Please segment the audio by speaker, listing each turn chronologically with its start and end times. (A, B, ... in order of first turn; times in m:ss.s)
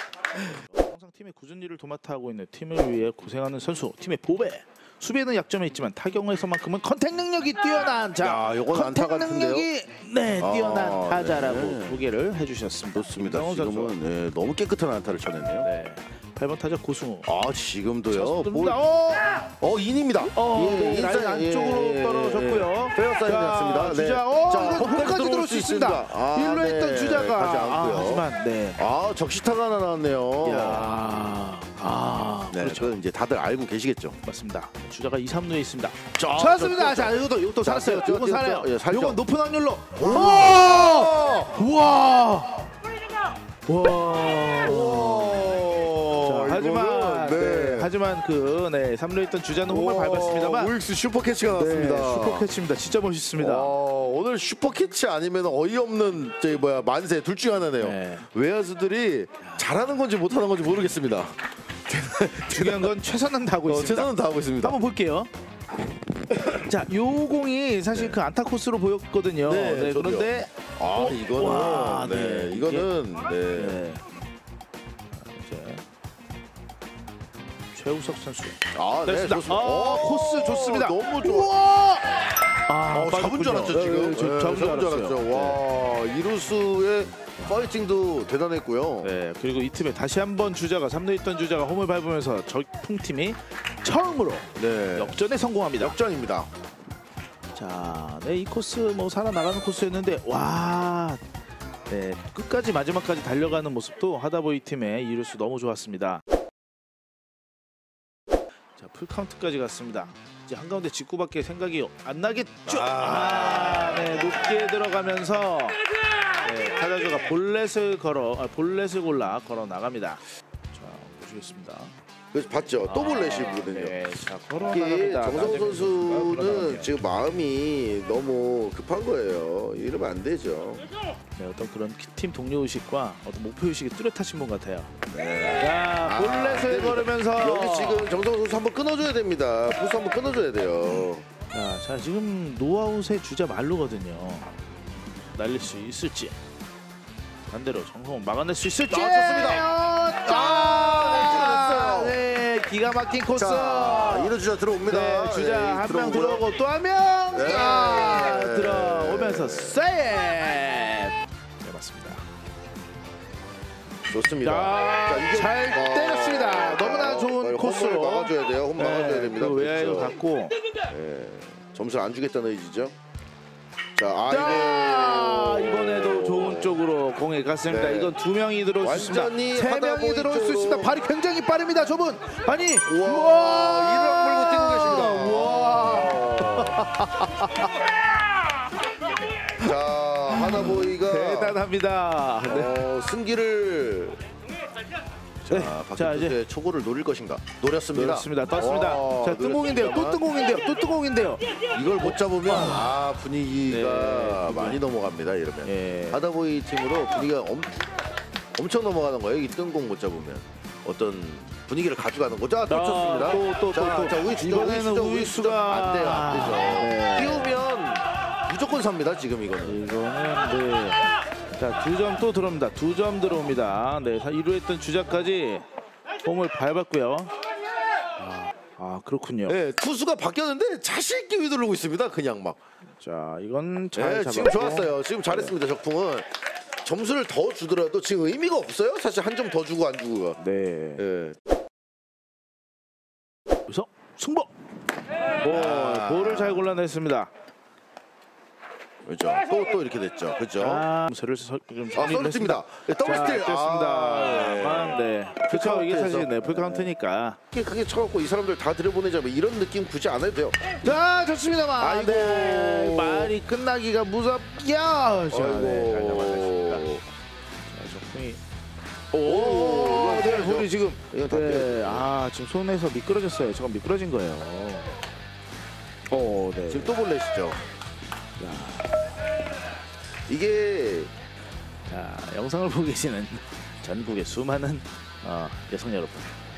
0:00.4-0:14.0 A
0:08.2-0:09.7 B
0:10.4-0:12.0 B
0:12.9-0:15.7 B
0:15.6-0:17.3 A
0:17.2-0:18.8 B
0:18.1-0:19.4 A
0:19.6-0:30.9 B
0:20.3-0:28.8 A
0:30.4-0:32.9 A
0:32.5-0:34.2 B
0:34.2-0:42.7 A
0:36.2-0:39.2 B
0:40.0-0:41.6 B
0:43.7-0:45.6 A
0:44.5-0:47.9 B
0:46.2-0:50.7 A
0:49.7-0:52.5 B
0:51.5-0:53.8 A
0:53.4-1:02.9 B
0:57.8-0:58.2 A
1:02.4-1:05.3 A
1:03.6-1:04.8 B
1:06.5-1:12.9 A
1:07.9-1:08.2 B
1:09.5-1:13.8 B
1:13.5-1:14.0 A
1:15.1-1:15.8 A
1:17.7-1:25.6 A
1:18.7-1:21.5 B
1:22.9-1:29.2 B
1:27.4-1:27.7 A
1:29.0-1:36.0 A
1:34.6-1:35.2 B
1:35.8-1:36.5 B
1:37.6-1:41.2 A
1:41.9-1:46.2 A
1:48.8-1:55.8 A
1:52.7-1:54.2 B
1:56.4-2:01.9 A
2:02.3-2:04.0 B
2:02.8-2:06.9 A
2:04.7-2:10.9 B
2:11.4-2:14.9 A
2:15.1-2:21.3 B
2:15.6-2:18.1 A
2:21.5-2:24.5 A
2:25.4-2:26.4 A
2:27.5-2:42.2 A
2:28.9-2:29.7 B
2:30.2-2:32.2 B
2:33.4-2:36.5 B
2:37.3-2:39.8 B
2:44.1-2:50.2 B
2:44.4-2:50.6 A
2:50.9-2:53.0 B
2:54.0-2:56.8 B
2:54.3-3:07.9 A
2:57.7-2:58.2 B
2:58.8-3:01.0 B
3:02.8-3:06.8 B
3:09.6-3:11.6 B
3:10.3-3:12.8 A
3:12.4-3:14.2 B
3:15.5-3:20.3 B
3:15.5-3:16.4 A
3:18.0-3:21.4 A
3:21.7-3:27.8 B
3:22.0-3:22.9 A
3:23.7-3:24.8 A
3:25.6-3:26.2 A
3:28.6-3:39.8 B
3:32.7-3:37.6 A
3:39.6-3:41.0 A
3:41.6-3:45.6 A
3:46.2-3:47.3 A
3:48.2-3:49.6 A
3:49.5-3:52.6 B
3:53.0-3:55.5 A
3:54.0-3:56.3 B
3:56.8-4:00.4 B
4:00.4-4:01.0 A
4:01.0-4:01.4 B
4:03.7-4:04.5 A
4:05.4-4:07.3 A
4:05.5-4:06.8 B
4:09.0-4:10.9 B
4:10.6-4:17.4 A
4:11.9-4:16.9 B
4:17.5-4:20.6 B
4:20.8-4:26.9 A
4:21.8-4:23.4 B
4:25.3-4:27.0 B
4:27.6-4:28.4 A
4:29.1-4:34.9 A
4:29.2-4:32.1 B
4:36.1-4:37.0 A
4:36.7-4:37.6 B
4:38.4-4:38.9 A
4:40.3-4:41.1 B
4:41.9-4:46.3 A